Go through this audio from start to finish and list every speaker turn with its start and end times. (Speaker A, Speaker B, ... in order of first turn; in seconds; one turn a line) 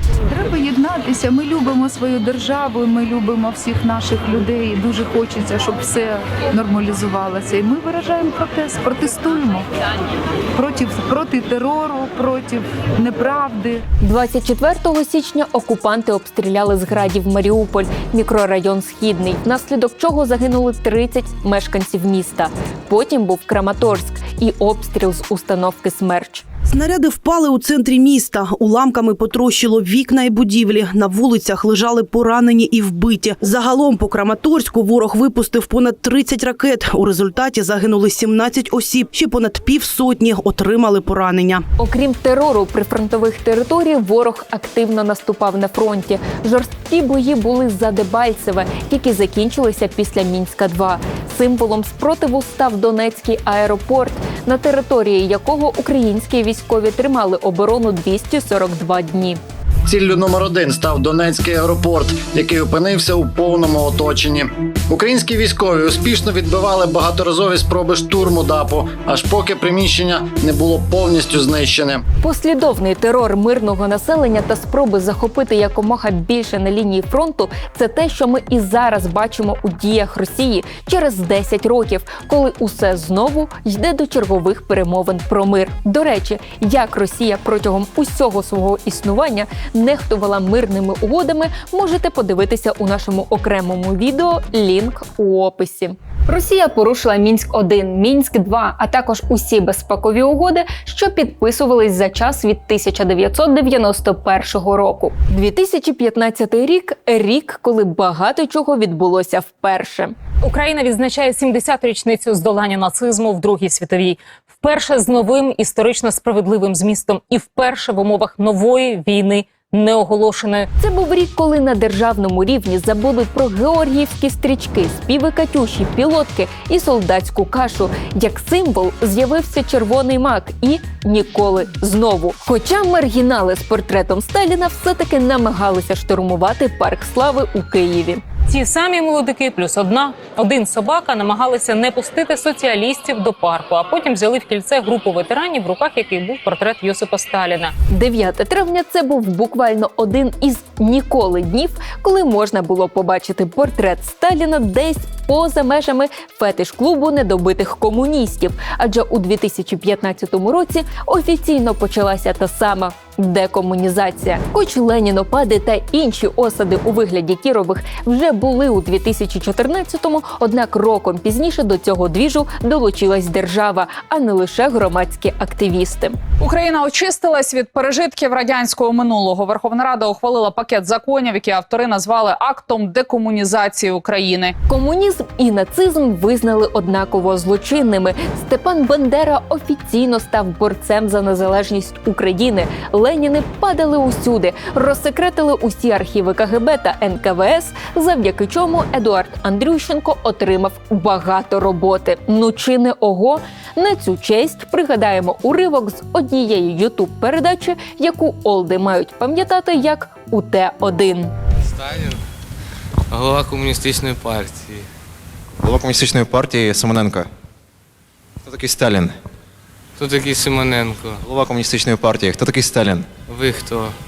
Speaker A: 0.3-9.7
Speaker A: 10.6-13.8
Speaker B: 14.0-26.4
Speaker C: 26.7-41.6
Speaker B: 41.8-59.4
Speaker D: 59.9-72.0
Speaker B: 72.2-110.1
Speaker E: 110.4-120.7
Speaker B: 120.8-138.2
Speaker E: 138.5-147.7
Speaker B: 147.9-176.2
Speaker F: 176.4-184.5
Speaker B: 184.7-211.3
Speaker G: 211.8-212.2
Speaker G: 213.1-214.8
Speaker H: 215.6-217.3
Speaker H: 218.5-219.1
Speaker G: 220.0-221.2
Speaker H: 221.2-223.1
Speaker G: 223.3-223.9